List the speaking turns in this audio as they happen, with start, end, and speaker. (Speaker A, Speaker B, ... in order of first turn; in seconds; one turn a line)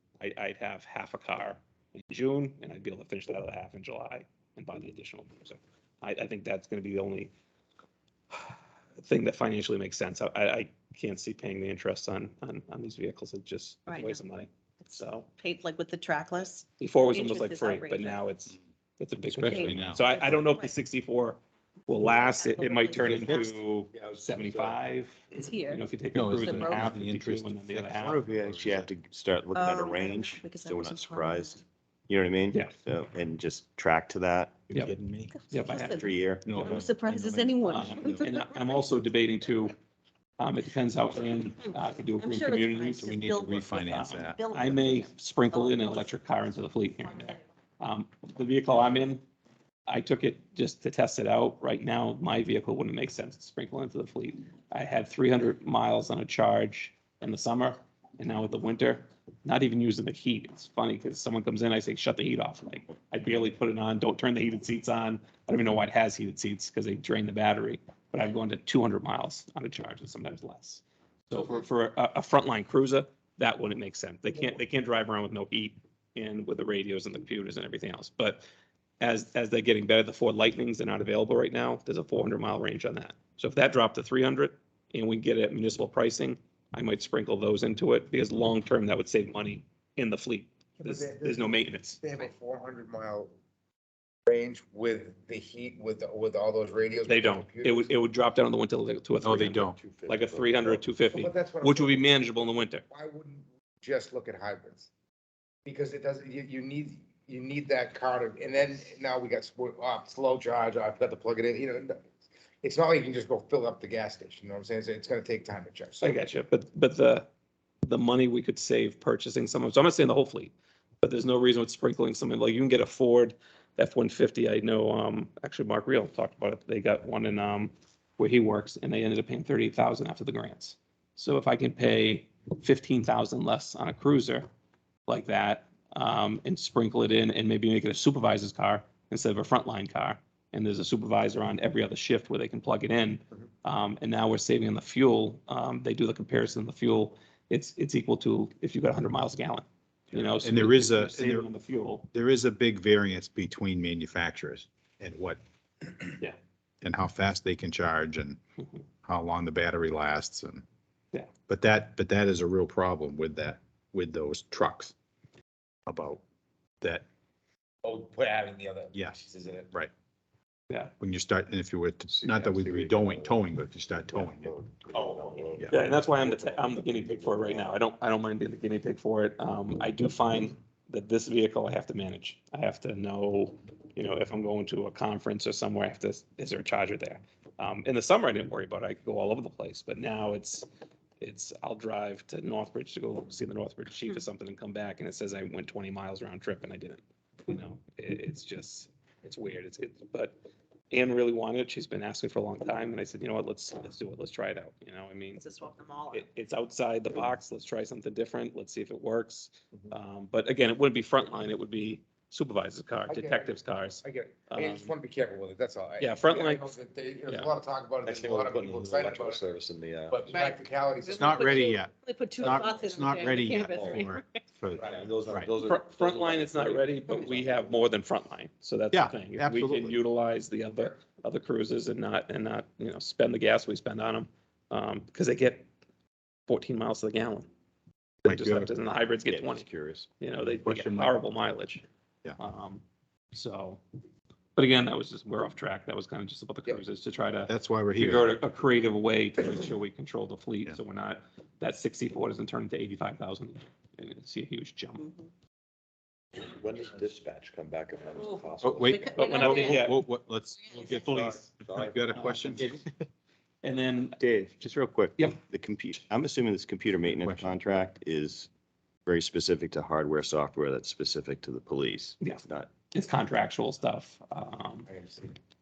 Speaker A: 0.2-7.3
Speaker A: 8.3-15.3
Speaker B: 13.9-14.2
Speaker B: 14.8-18.2
Speaker A: 16.8-28.2
Speaker B: 19.3-20.8
Speaker C: 19.4-20.0
Speaker B: 22.1-23.6
Speaker D: 23.9-24.8
Speaker B: 25.3-26.9
Speaker C: 26.1-28.9
Speaker D: 27.9-34.6
Speaker B: 29.5-31.6
Speaker C: 34.7-35.3
Speaker B: 35.3-38.8
Speaker A: 35.5-36.0
Speaker D: 35.9-37.0
Speaker C: 36.4-38.2
Speaker A: 37.6-39.7
Speaker A: 40.4-43.1
Speaker B: 42.2-46.1
Speaker C: 43.0-44.4
Speaker A: 43.7-49.2
Speaker A: 49.9-78.5
Speaker A: 79.0-92.0
Speaker E: 90.8-93.3
Speaker E: 94.3-97.9
Speaker A: 97.1-102.8
Speaker C: 99.2-99.8
Speaker D: 99.6-100.8
Speaker E: 101.1-104.9
Speaker E: 105.7-112.0
Speaker E: 112.6-116.3
Speaker A: 116.0-117.3
Speaker A: 117.8-134.5
Speaker A: 135.1-152.1
Speaker C: 150.4-151.5
Speaker C: 152.1-156.2
Speaker C: 156.8-158.4
Speaker C: 159.1-160.7
Speaker C: 161.5-164.9
Speaker C: 165.9-166.2
Speaker E: 167.8-169.7
Speaker C: 168.9-169.2
Speaker C: 171.0-174.6
Speaker D: 172.4-173.2
Speaker D: 174.4-177.6
Speaker E: 174.9-175.4
Speaker A: 175.7-190.7
Speaker A: 191.2-200.4
Speaker A: 200.9-205.4
Speaker B: 205.4-206.3
Speaker A: 206.1-214.9
Speaker E: 213.1-221.7
Speaker A: 216.0-216.8
Speaker D: 218.0-220.2
Speaker B: 220.3-224.3
Speaker C: 221.2-225.5
Speaker D: 224.8-227.7
Speaker A: 225.6-235.7
Speaker C: 228.9-230.0
Speaker A: 236.5-237.5
Speaker A: 238.2-239.7
Speaker C: 238.3-238.7
Speaker D: 239.3-240.1
Speaker A: 240.2-241.8
Speaker C: 240.6-241.2
Speaker A: 242.4-242.8
Speaker A: 243.3-243.8
Speaker A: 244.6-255.1
Speaker C: 247.5-248.3
Speaker D: 256.4-258.9
Speaker B: 258.2-259.8
Speaker C: 258.6-262.8
Speaker A: 259.2-260.0
Speaker B: 260.7-261.0
Speaker D: 261.3-262.0
Speaker A: 262.1-262.6
Speaker A: 263.6-264.2
Speaker D: 264.2-268.5
Speaker C: 267.1-267.5
Speaker D: 269.1-272.7
Speaker A: 272.2-274.9
Speaker E: 274.9-275.4